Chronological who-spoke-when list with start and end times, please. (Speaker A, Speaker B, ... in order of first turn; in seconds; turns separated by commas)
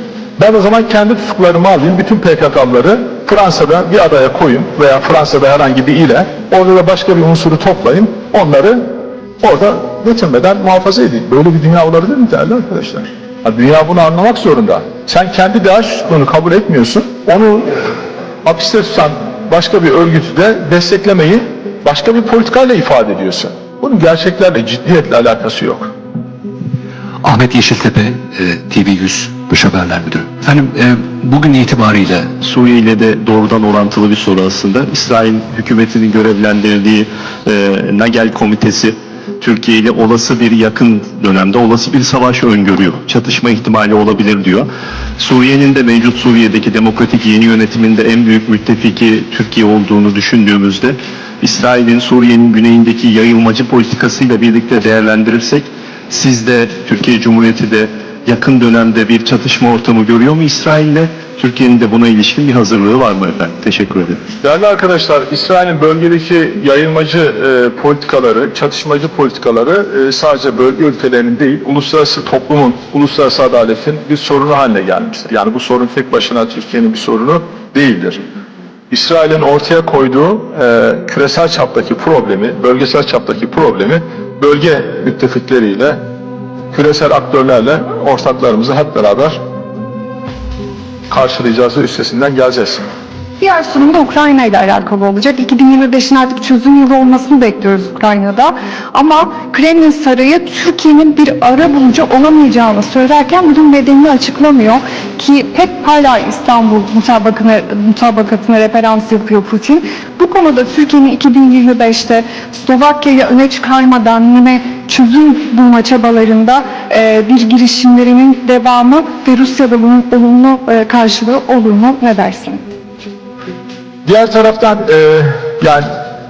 Speaker A: 0.4-8.8, Speaker A: 9.4-17.9, Speaker A: 18.4-25.9, Speaker B: 27.2-32.2, Speaker C: 32.3-64.2, Speaker A: 64.4-78.2, Speaker A: 78.9-86.0, Speaker A: 86.7-89.4, Speaker A: 91.1-92.8, Speaker D: 93.4-122.6, Speaker A: 124.0-125.9